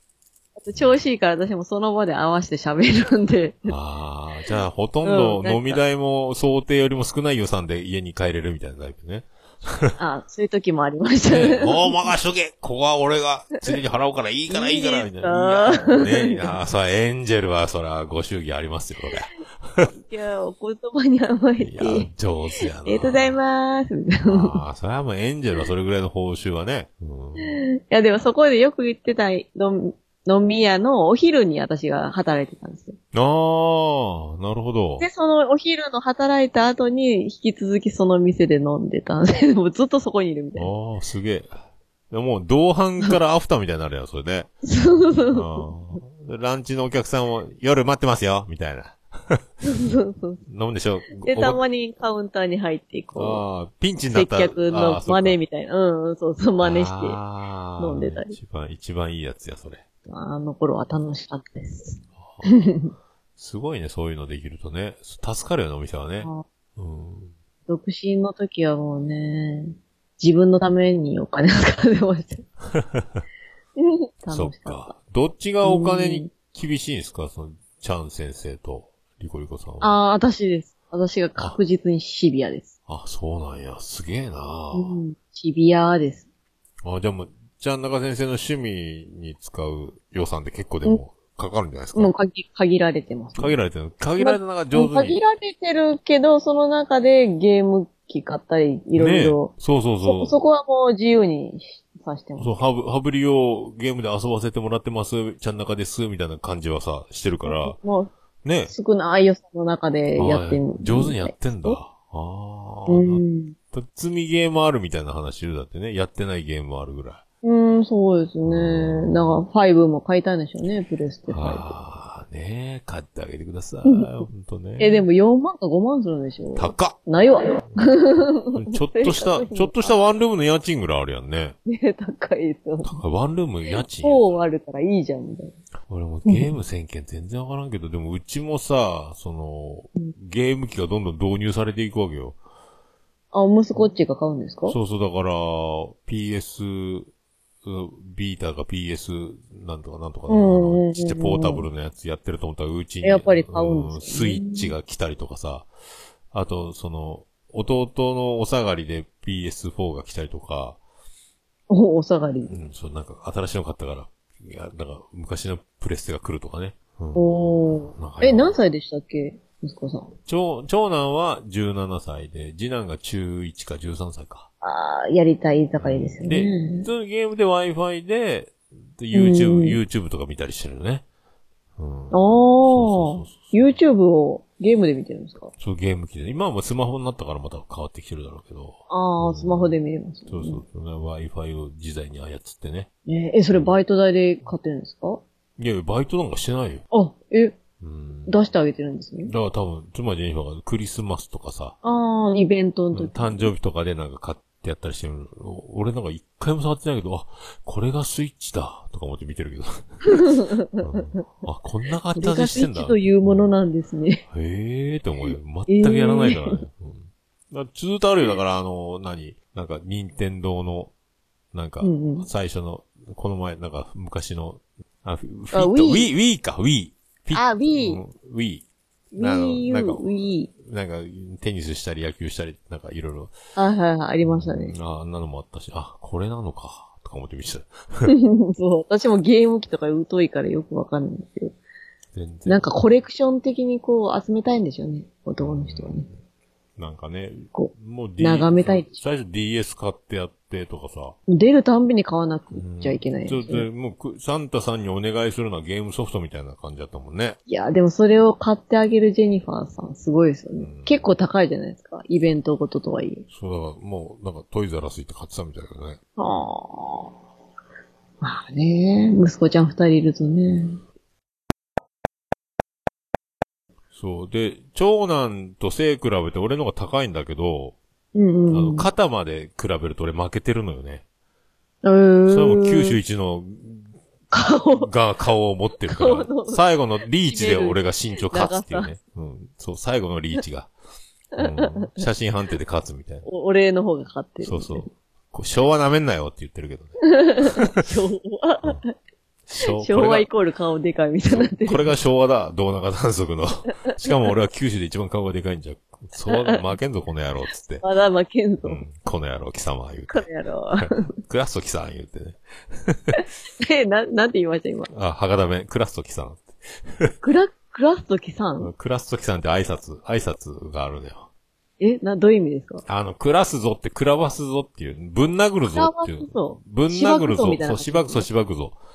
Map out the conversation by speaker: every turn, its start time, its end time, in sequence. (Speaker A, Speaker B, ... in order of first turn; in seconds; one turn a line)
Speaker A: 0.6-3.8
Speaker B: 0.7-1.0
Speaker B: 3.7-10.0
Speaker A: 5.0-5.8
Speaker A: 10.0-12.1
Speaker B: 11.3-19.9
Speaker A: 14.5-16.6
Speaker A: 19.9-22.1
Speaker B: 21.6-23.4
Speaker A: 22.8-24.6
Speaker B: 24.2-27.6
Speaker A: 27.4-33.0
Speaker B: 33.1-35.1
Speaker A: 35.0-40.7
Speaker B: 40.6-41.5
Speaker B: 42.1-49.5
Speaker A: 44.7-45.7
Speaker A: 49.6-50.4
Speaker B: 50.5-51.6
Speaker A: 51.2-53.5
Speaker B: 53.1-55.4
Speaker A: 54.1-57.2
Speaker B: 56.6-59.8
Speaker A: 57.8-58.4
Speaker A: 60.1-62.9
Speaker B: 63.4-67.3
Speaker A: 67.7-72.5
Speaker B: 72.7-73.2
Speaker A: 73.8-74.9
Speaker B: 74.3-80.0
Speaker A: 75.6-76.3
Speaker A: 79.8-82.7
Speaker B: 82.9-85.0
Speaker A: 84.7-86.2
Speaker B: 86.8-92.1
Speaker A: 92.0-93.6
Speaker B: 93.4-95.2
Speaker A: 94.2-99.5
Speaker B: 99.0-100.4
Speaker A: 100.0-102.5
Speaker B: 102.4-107.8
Speaker A: 107.4-108.1
Speaker B: 108.4-108.7
Speaker A: 108.7-111.8
Speaker B: 110.2-117.2
Speaker A: 112.9-113.6
Speaker A: 117.4-121.7
Speaker B: 118.4-119.4
Speaker B: 121.3-125.1
Speaker A: 123.8-124.3
Speaker A: 124.8-129.9
Speaker B: 126.5-127.0
Speaker B: 128.5-131.6
Speaker A: 131.7-133.0
Speaker B: 132.8-134.4
Speaker A: 134.0-135.6
Speaker B: 135.9-142.4
Speaker A: 136.3-136.6
Speaker A: 143.3-144.8
Speaker B: 144.7-147.1
Speaker B: 147.6-155.7
Speaker A: 150.3-151.7
Speaker A: 153.0-154.7
Speaker B: 156.3-160.8
Speaker A: 161.7-162.6
Speaker B: 162.5-168.6
Speaker A: 167.2-170.1
Speaker B: 170.3-174.5
Speaker A: 174.6-176.9
Speaker B: 175.8-181.1
Speaker A: 179.1-179.8
Speaker B: 181.8-183.8
Speaker A: 182.1-185.5
Speaker B: 185.6-189.8
Speaker A: 188.9-190.6
Speaker B: 190.3-192.9
Speaker A: 193.1-195.2
Speaker B: 193.5-193.8
Speaker B: 195.6-196.9
Speaker A: 196.9-197.6
Speaker B: 197.8-198.3
Speaker A: 198.3-199.3
Speaker B: 199.2-201.8
Speaker A: 201.8-203.5
Speaker B: 202.9-213.5
Speaker A: 210.1-211.2
Speaker A: 212.2-214.2
Speaker B: 214.3-220.9
Speaker A: 215.7-216.6
Speaker B: 221.5-228.7
Speaker A: 221.8-222.3
Speaker A: 225.5-226.1
Speaker A: 227.3-228.0
Speaker A: 229.1-230.5
Speaker B: 229.2-233.3
Speaker A: 233.6-234.8
Speaker B: 234.2-238.1
Speaker A: 238.1-241.6
Speaker B: 242.1-242.7
Speaker A: 242.5-246.1
Speaker B: 245.4-246.1
Speaker B: 246.8-251.2
Speaker A: 247.5-249.0
Speaker A: 251.3-253.7
Speaker B: 252.5-257.4
Speaker A: 257.5-263.2
Speaker B: 260.6-261.1
Speaker B: 263.3-266.0
Speaker A: 266.2-267.1
Speaker A: 268.2-270.8
Speaker B: 273.9-277.8
Speaker A: 278.1-278.9
Speaker B: 278.5-281.0
Speaker A: 281.8-283.0
Speaker B: 282.3-283.9
Speaker A: 284.3-284.9
Speaker B: 284.7-290.7
Speaker A: 285.9-286.6
Speaker A: 287.2-288.9
Speaker A: 291.4-292.0
Speaker B: 291.4-293.3
Speaker A: 293.3-294.9
Speaker B: 294.4-297.8
Speaker A: 297.1-298.9
Speaker B: 299.5-300.3
Speaker A: 299.7-301.9
Speaker B: 301.3-307.8
Speaker A: 306.2-306.6
Speaker A: 307.8-308.8
Speaker B: 308.6-310.3
Speaker A: 310.1-311.0
Speaker B: 310.8-313.2
Speaker A: 313.2-314.9
Speaker B: 314.9-317.1
Speaker A: 317.2-318.7
Speaker B: 318.6-321.3
Speaker A: 321.8-322.8
Speaker B: 322.9-328.8
Speaker A: 325.7-328.3